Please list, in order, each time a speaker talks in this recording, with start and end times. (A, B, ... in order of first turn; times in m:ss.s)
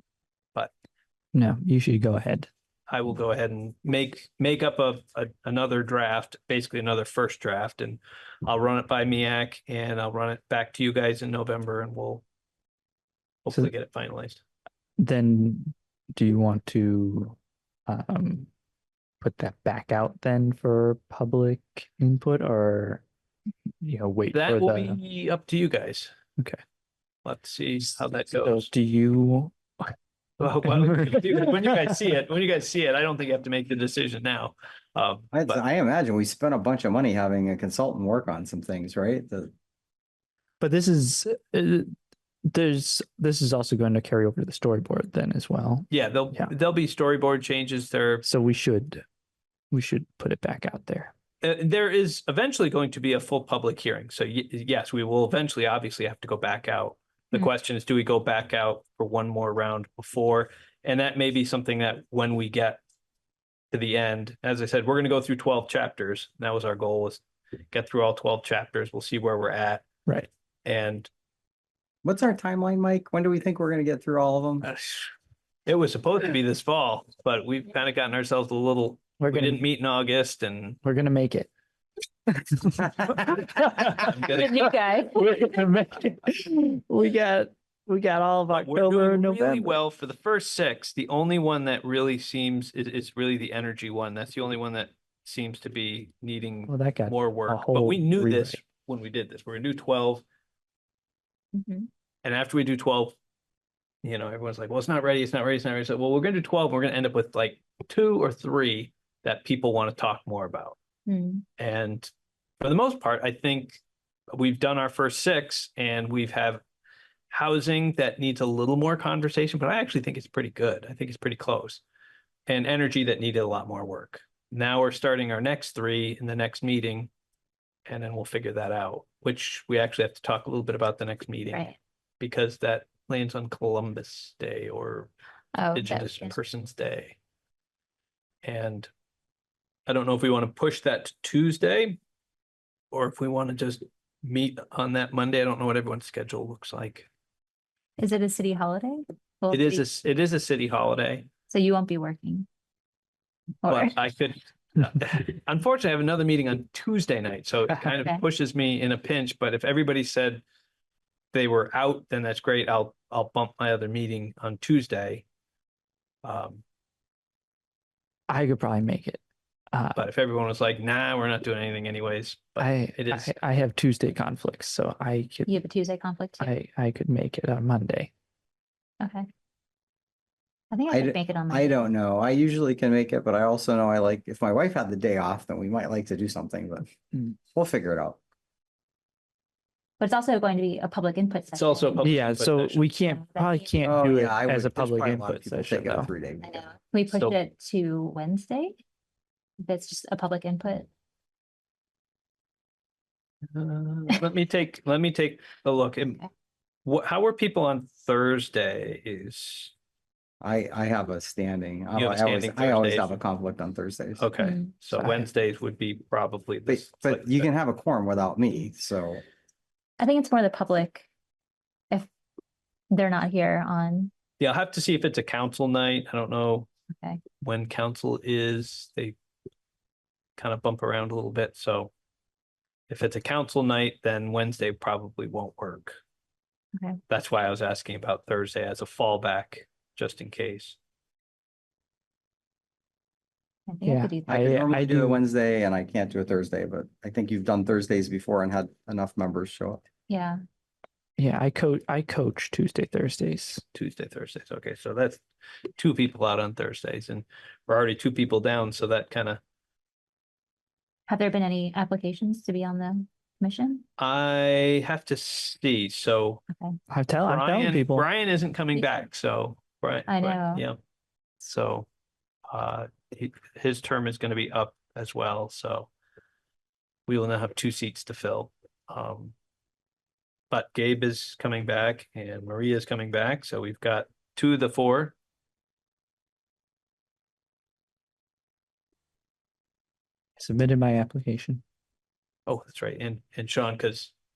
0:01.3-0:02.5 A
0:02.9-0:12.2 B
0:13.4-0:14.4 B
0:15.0-0:18.5 A
0:19.2-0:23.0 A
0:23.8-0:25.0 A
0:24.3-0:26.1 B
0:27.2-0:28.7 B
0:28.0-0:31.7 A
0:30.4-0:35.6 B
0:35.3-0:39.5 C
0:40.6-0:41.9 A
0:42.5-0:46.5 A
0:45.9-0:48.2 B
0:48.2-0:49.0 A
0:49.7-0:51.1 A
0:51.4-1:02.8 B
1:03.7-1:09.9 B
1:10.6-1:11.1 B
1:12.0-1:14.7 C
1:15.7-1:20.8 B
1:19.2-1:19.6 A
1:20.8-1:21.5 A
1:22.3-1:24.0 A
1:23.8-1:24.8 B
1:24.4-1:25.2 D
1:25.2-1:29.8 A
1:28.5-1:40.2 B
1:36.7-1:38.6 A
1:41.5-1:41.9 D
1:42.2-1:43.2 B
1:44.0-1:50.8 B
1:51.1-1:51.4 D
1:51.6-1:53.8 B
1:54.3-1:56.6 B
1:57.3-2:01.8 B
2:02.5-2:07.1 B
2:07.9-2:11.7 B
2:12.2-2:15.1 B
2:15.6-2:16.4 D
2:15.7-2:17.2 B
2:18.4-2:18.9 B
2:19.9-2:22.0 B
2:22.9-2:27.1 B
2:28.0-2:29.8 D
2:29.5-2:31.3 B
2:31.5-2:32.5 D
2:33.6-2:34.0 D
2:33.7-2:40.4 B
2:41.3-2:45.2 B
2:46.2-2:46.6 B
2:48.3-2:50.0 A
2:50.0-2:53.3 B
2:52.6-2:55.6 A
2:55.5-2:56.5 D
2:56.4-2:58.1 A
2:59.0-2:59.3 D
3:00.7-3:01.8 D
3:00.9-3:06.9 C
3:07.5-3:08.2 C
3:10.0-3:12.0 D
3:11.6-3:12.8 B
3:12.0-3:16.1 A
3:13.1-3:13.6 D
3:13.8-3:16.7 C
3:16.9-3:18.8 D
3:17.1-3:17.4 B
3:19.6-3:20.9 D
3:23.5-3:26.2 B
3:26.8-3:29.7 B
3:30.4-3:34.3 C
3:32.0-3:33.2 B
3:34.2-3:37.5 B
3:34.4-3:34.7 D
3:34.9-3:35.3 A
3:36.7-3:39.2 C
3:40.0-3:41.1 D
3:42.9-3:44.1 D
3:44.4-3:46.7 B
3:47.4-3:49.2 B
3:50.4-3:51.9 B
3:52.9-3:56.0 B
3:57.1-4:00.8 B
4:03.7-4:04.3 D
4:03.8-4:05.2 A
4:04.3-4:09.8 C
4:10.1-4:10.4 D
4:11.2-4:13.6 A
4:13.7-4:15.2 B
4:15.8-4:19.4 B
4:21.1-4:23.8 D
4:24.0-4:26.4 B
4:26.5-4:26.8 D
4:26.9-4:28.1 A
4:27.2-4:30.8 B
4:28.8-4:29.1 D
4:30.1-4:30.6 D
4:31.4-4:31.9 B
4:32.5-4:35.9 B
4:37.1-4:39.4 B
4:40.5-4:45.2 B
4:50.4-4:51.6 A
4:52.5-4:54.1 B